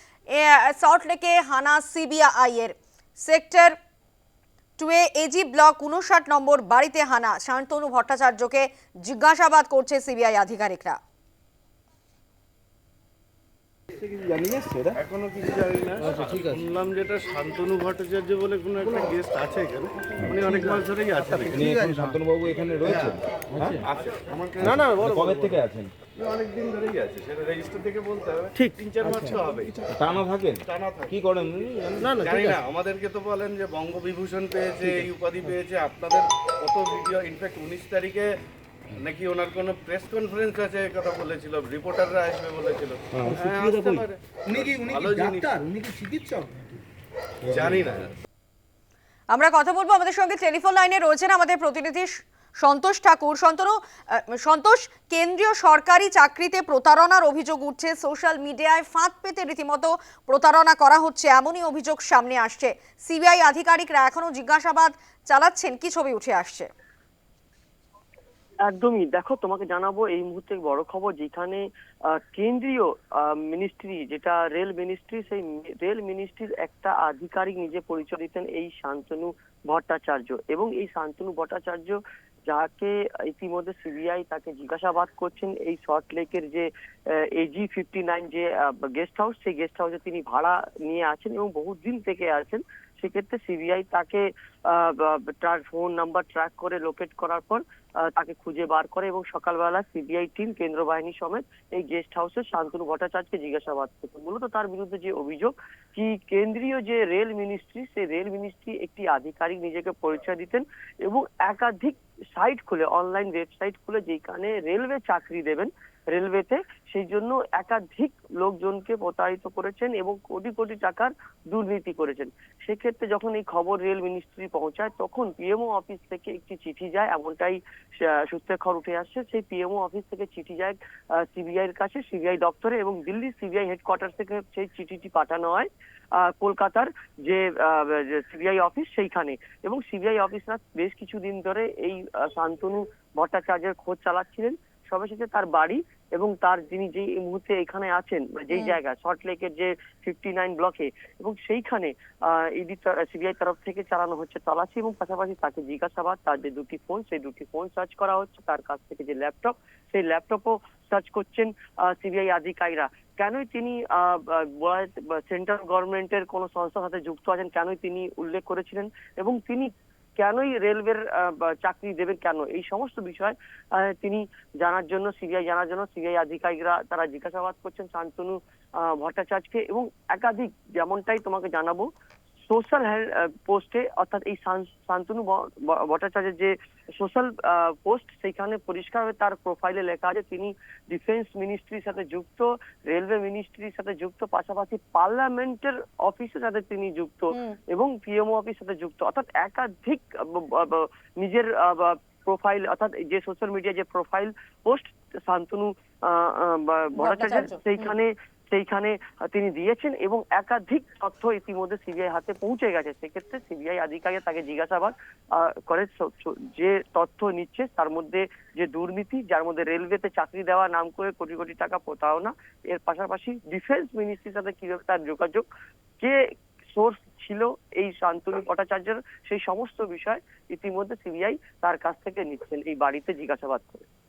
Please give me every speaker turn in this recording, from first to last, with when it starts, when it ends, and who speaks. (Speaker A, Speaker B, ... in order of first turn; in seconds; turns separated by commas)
Speaker A: 0.3-3.8, Speaker A: 4.8-11.0, Speaker B: 13.9-15.0, Speaker C: 14.9-21.7, Speaker B: 21.5-23.9, Speaker D: 21.6-22.2, Speaker C: 22.8-23.2, Speaker C: 23.8-25.5, Speaker B: 24.6-25.9, Speaker C: 26.1-29.8, Speaker B: 29.9-32.3, Speaker C: 30.6-31.1, Speaker C: 32.0-38.4, Speaker C: 38.9-45.6, Speaker D: 43.2-46.8, Speaker C: 47.4-48.1, Speaker B: 47.5-47.8, Speaker A: 49.3-66.7, Speaker E: 68.6-181.9, Speaker E: 182.5-225.4, Speaker A: 206.9-207.9, Speaker E: 226.0-233.8